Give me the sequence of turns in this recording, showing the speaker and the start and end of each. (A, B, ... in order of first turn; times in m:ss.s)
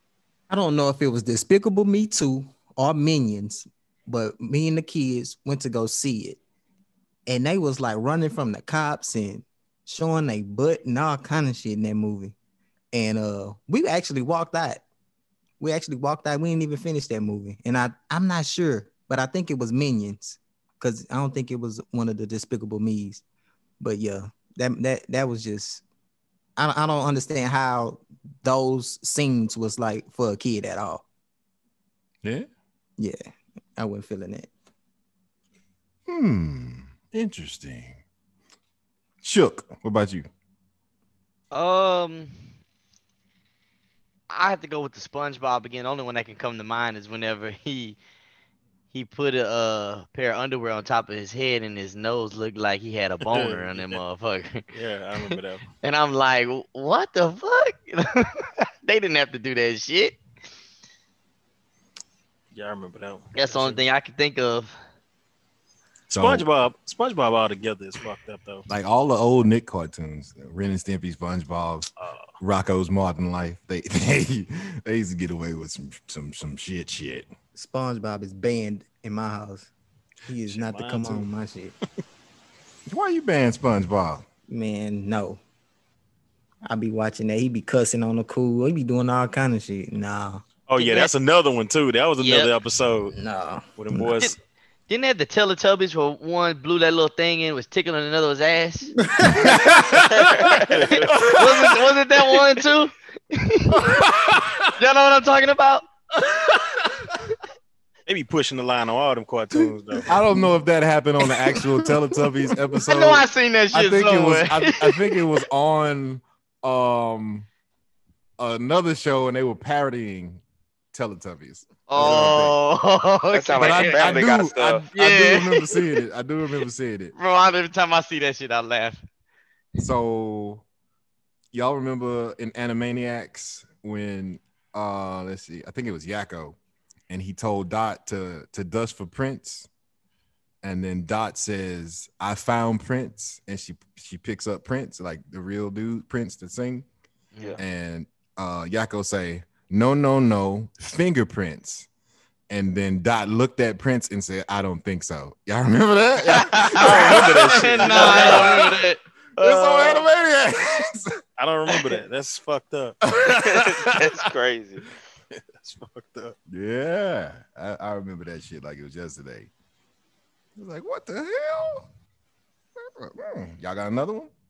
0:00.5-0:06.4 A
0:07.3-0:12.3 A
0:12.9-0:14.8 A
0:15.6-0:23.2 A
0:23.8-0:25.8 A
0:26.6-0:31.0 A
0:32.2-0:32.5 B
0:33.8-0:34.5 A
0:36.1-0:38.0 B
0:39.2-0:40.3 B
0:41.5-0:42.3 C
0:44.3-0:48.0 C
0:48.9-0:54.7 C
0:53.2-0:54.0 D
0:54.7-0:55.6 D
0:55.2-1:00.2 C
1:02.5-1:03.8 D
1:03.3-1:04.8 C
1:06.1-1:08.6 D
1:06.1-1:06.5 B
1:08.7-1:11.9 B
1:12.0-1:12.3 D
1:12.4-1:17.3 B
1:17.5-1:19.7 A
1:20.3-1:21.7 A
1:20.5-1:21.3 D
1:22.9-1:24.2 B
1:24.5-1:25.4 A
1:26.6-1:30.4 A
1:30.7-1:33.1 D
1:30.8-1:31.1 C
1:32.2-1:32.5 C
1:33.1-1:33.6 A
1:33.8-1:34.4 D
1:34.9-1:39.0 C
1:39.3-1:40.6 B
1:40.1-1:42.4 E
1:40.7-1:41.3 D
1:41.1-1:41.7 B
1:41.1-1:43.8 C
1:43.7-1:44.7 B
1:44.8-1:45.8 C
1:46.2-1:47.1 B
1:48.1-1:50.1 D
1:50.1-1:57.5 B
1:52.8-1:55.2 C
1:58.4-2:00.4 B
2:00.9-2:02.6 B
2:01.9-2:04.3 C
2:03.3-2:04.8 E
2:03.6-2:07.1 B
2:04.9-2:05.8 C
2:07.1-2:09.0 C
2:09.8-2:10.6 B
2:11.5-2:16.6 B
2:17.1-2:19.7 B
2:20.6-2:26.8 B
2:27.6-2:31.9 B
2:32.5-2:38.8 B
2:36.3-2:39.0 C
2:36.7-2:38.6 D
2:39.4-2:41.1 B
2:39.4-2:40.1 D
2:41.4-2:43.0 D
2:43.1-2:44.2 B
2:43.3-2:44.9 E
2:45.3-2:46.3 D
2:46.5-2:49.5 B
2:50.6-2:51.9 B
2:52.8-2:54.3 B